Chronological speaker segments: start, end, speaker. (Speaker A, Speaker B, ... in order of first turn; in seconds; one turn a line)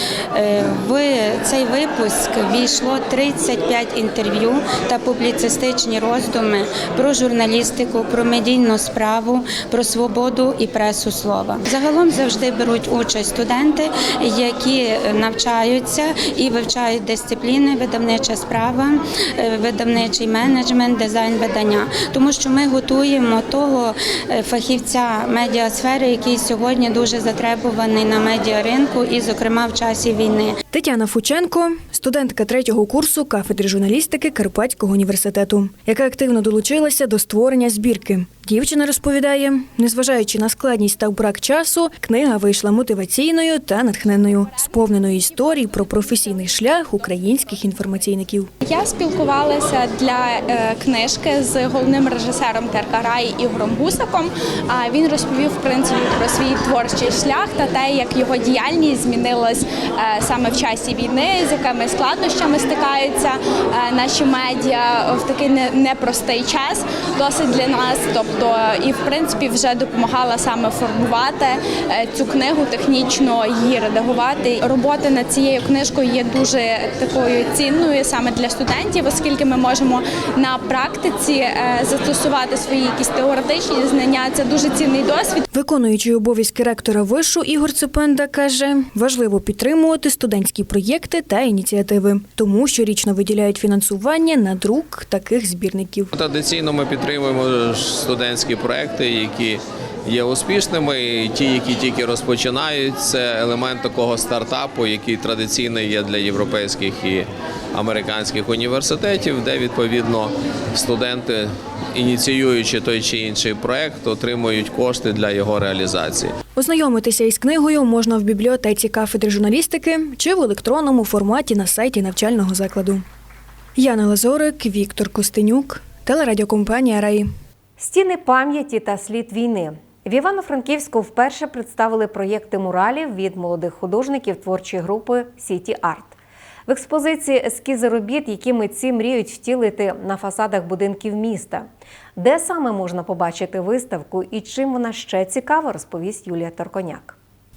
Speaker A: 0.3-30.5
Speaker B: 30.7-48.5
Speaker C: 48.6-85.4
Speaker B: 85.5-96.1
Speaker D: 96.2-116.3
Speaker B: 116.6-123.0
Speaker B: 123.8-127.3
Speaker E: 127.8-136.2
Speaker E: 136.7-147.2